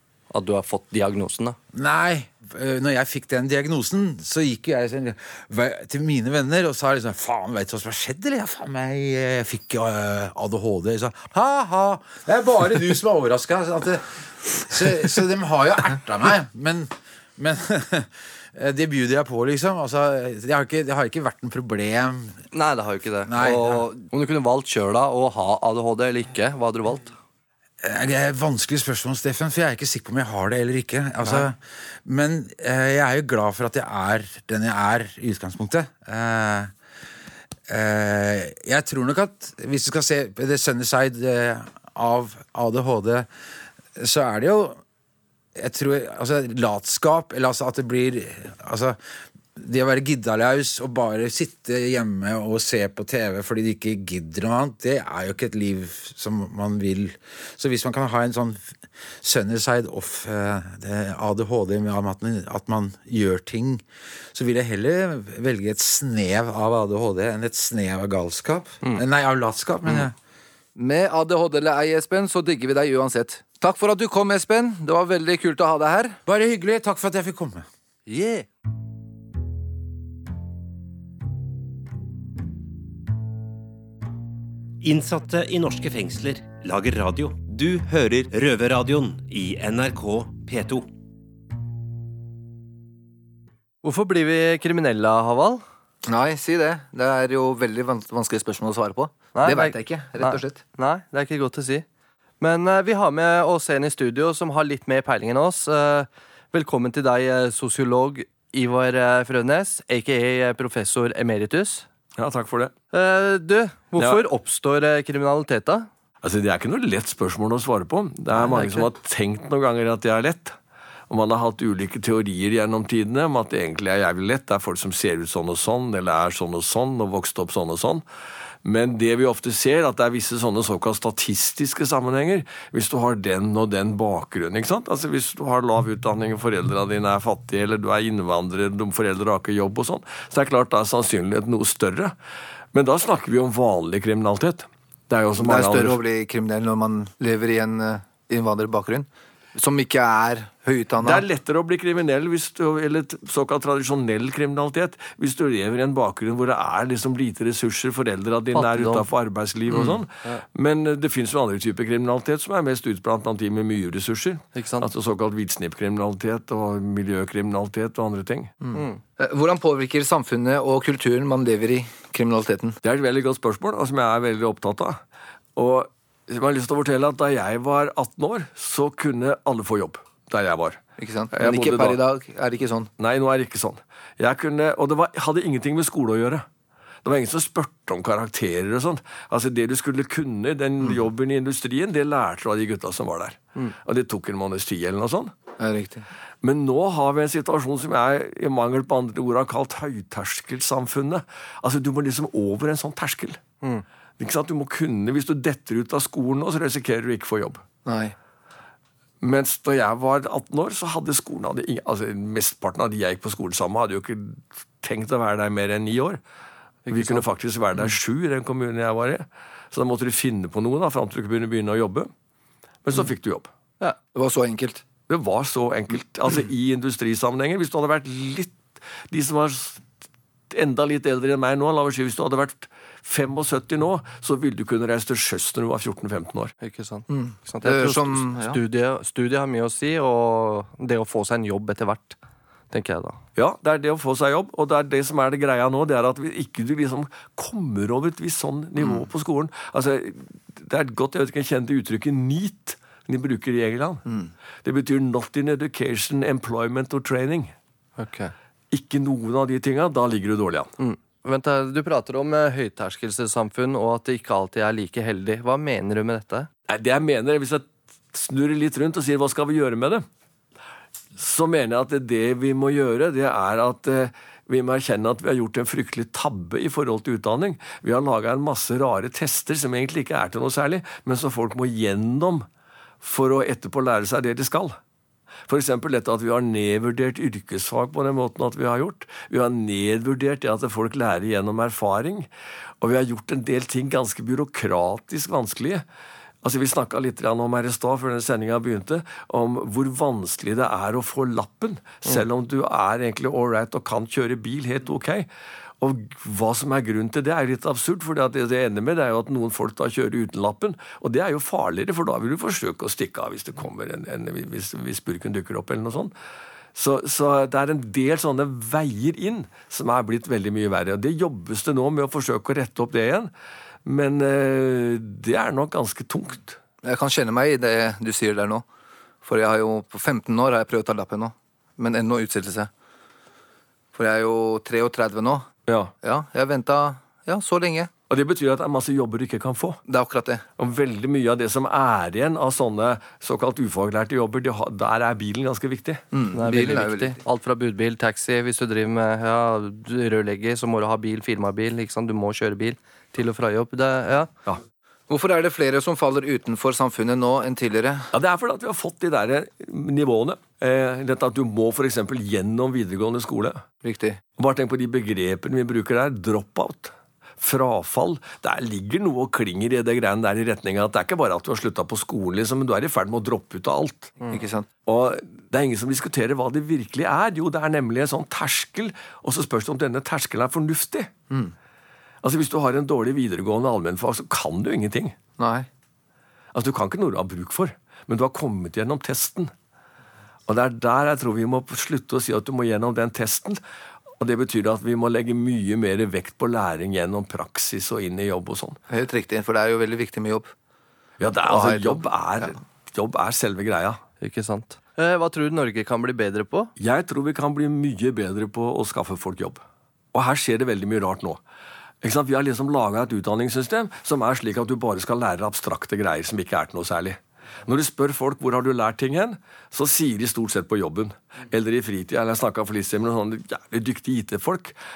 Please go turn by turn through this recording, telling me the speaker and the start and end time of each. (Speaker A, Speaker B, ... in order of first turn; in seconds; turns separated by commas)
Speaker A: 0.3-1.6, Speaker B: 1.7-22.4, Speaker A: 22.5-27.1, Speaker B: 23.3-23.8, Speaker B: 27.8-36.7, Speaker B: 37.7-43.3, Speaker B: 44.0-44.8, Speaker B: 45.5-49.0, Speaker B: 49.5-70.1, Speaker C: 70.8-76.2, Speaker B: 76.2-77.7, Speaker C: 78.1-78.5, Speaker D: 84.8-90.9, Speaker A: 93.8-95.6, Speaker C: 96.0-100.6, Speaker A: 99.3-101.8, Speaker A: 102.4-111.8, Speaker E: 112.2-112.7, Speaker A: 112.9-115.9, Speaker E: 116.2-120.5, Speaker A: 118.4-118.9, Speaker E: 121.1-128.0, Speaker E: 128.6-142.1, Speaker E: 142.7-146.0, Speaker C: 145.3-151.2, Speaker E: 151.0-168.6, Speaker A: 158.5-159.1, Speaker A: 159.7-160.4, Speaker A: 164.5-164.9, Speaker C: 168.6-172.8, Speaker A: 168.7-169.0, Speaker E: 172.8-175.0, Speaker E: 175.6-182.0, Speaker C: 181.0-182.9, Speaker E: 183.0-186.4, Speaker E: 187.0-195.3, Speaker C: 195.6-196.1, Speaker E: 196.4-203.4, Speaker E: 204.2-207.6, Speaker C: 207.8-208.1, Speaker E: 209.2-216.2, Speaker E: 216.9-222.1, Speaker C: 216.9-217.2, Speaker E: 222.8-223.5, Speaker C: 223.8-224.8, Speaker E: 225.1-228.6, Speaker E: 229.1-229.8, Speaker E: 230.5-236.6, Speaker A: 236.6-242.2, Speaker C: 237.1-238.6, Speaker A: 242.7-243.2, Speaker E: 243.3-254.0, Speaker E: 254.6-257.5, Speaker C: 258.0-258.3, Speaker E: 258.7-260.7, Speaker A: 260.8-266.5, Speaker E: 266.7-270.0, Speaker E: 271.1-282.4, Speaker E: 283.0-284.8, Speaker E: 285.5-292.3, Speaker E: 292.8-295.8, Speaker E: 296.4-305.3, Speaker E: 305.8-316.1, Speaker E: 316.7-323.3, Speaker E: 323.8-326.6, Speaker C: 326.8-328.6, Speaker C: 329.2-332.7, Speaker C: 333.9-335.5, Speaker E: 335.7-335.9, Speaker C: 336.0-337.9, Speaker E: 338.1-339.8, Speaker C: 339.9-340.4, Speaker E: 340.6-346.1, Speaker C: 346.1-347.2, Speaker A: 346.3-354.3, Speaker C: 355.1-358.1, Speaker E: 358.1-363.6, Speaker C: 363.8-364.2, Speaker E: 364.4-381.1, Speaker C: 374.2-374.6, Speaker E: 382.2-385.1, Speaker C: 385.4-385.7, Speaker E: 386.5-389.5, Speaker E: 390.5-393.6, Speaker E: 394.2-398.8, Speaker C: 398.9-400.5, Speaker E: 401.2-404.0, Speaker C: 401.4-402.5, Speaker A: 404.2-406.7, Speaker E: 406.8-409.6, Speaker E: 410.1-411.4, Speaker E: 412.0-424.7